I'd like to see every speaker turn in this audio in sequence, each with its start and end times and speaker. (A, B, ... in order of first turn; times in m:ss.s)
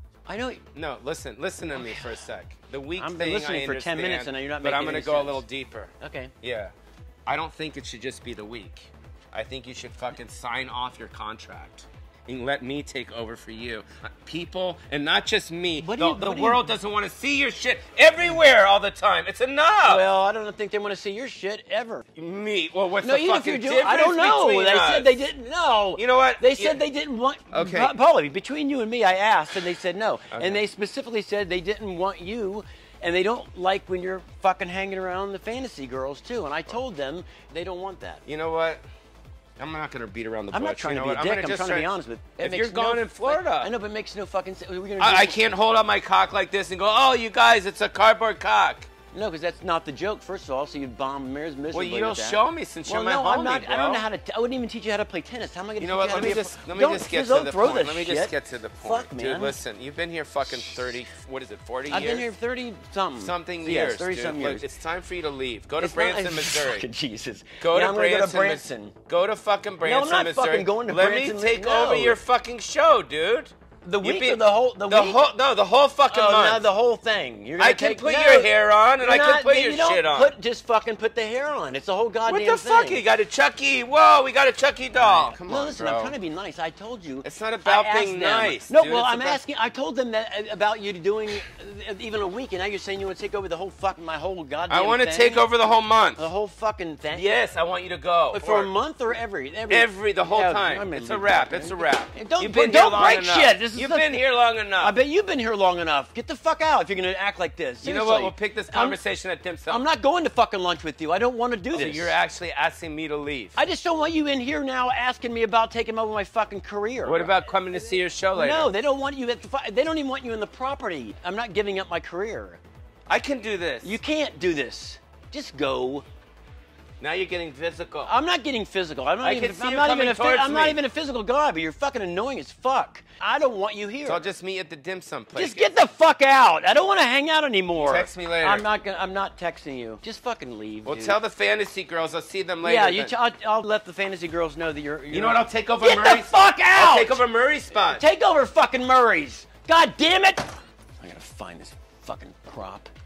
0:00.3-0:00.6 A
0:00.7-0:06.7 B
0:01.7-0:02.2 A
0:03.0-0:05.4 A
0:06.0-0:06.3 A
0:07.2-0:20.0 B
0:15.8-0:16.6 A
0:19.9-0:22.0 A
0:22.2-0:25.2 B
0:23.0-0:38.2 A
0:26.0-0:26.8 B
0:27.5-0:27.9 B
0:30.3-0:30.6 B
0:38.2-0:38.8 B
0:39.6-0:43.7 B
0:40.5-0:45.4 A
0:45.0-0:48.9 B
0:49.1-0:59.5 A
0:51.7-0:54.0 B
0:55.8-1:02.3 B
1:01.9-1:04.6 A
1:03.2-1:06.9 B
1:05.8-1:09.0 A
1:07.6-1:16.6 B
1:09.8-1:12.2 A
1:13.8-1:15.2 A
1:16.1-1:23.0 A
1:17.6-1:20.3 B
1:22.2-1:26.1 B
1:25.0-1:35.5 A
1:27.2-1:29.4 B
1:34.7-1:36.2 B
1:36.2-1:37.3 A
1:37.1-1:38.7 B
1:38.3-1:44.2 A
1:39.7-1:45.0 B
1:44.8-1:49.0 A
1:47.8-1:49.8 B
1:49.7-1:52.2 A
1:51.7-1:53.6 B
1:53.5-1:57.3 A
1:57.0-1:58.7 B
1:58.3-2:02.6 A
2:03.1-2:04.0 B
2:03.8-2:06.0 A
2:07.0-2:08.1 B
2:08.0-2:14.2 A
2:09.2-2:10.8 B
2:14.0-2:15.7 B
2:15.3-2:21.2 A
2:17.8-2:18.6 B
2:20.8-2:23.1 B
2:22.6-2:27.2 A
2:25.1-2:28.0 B
2:27.7-2:32.9 A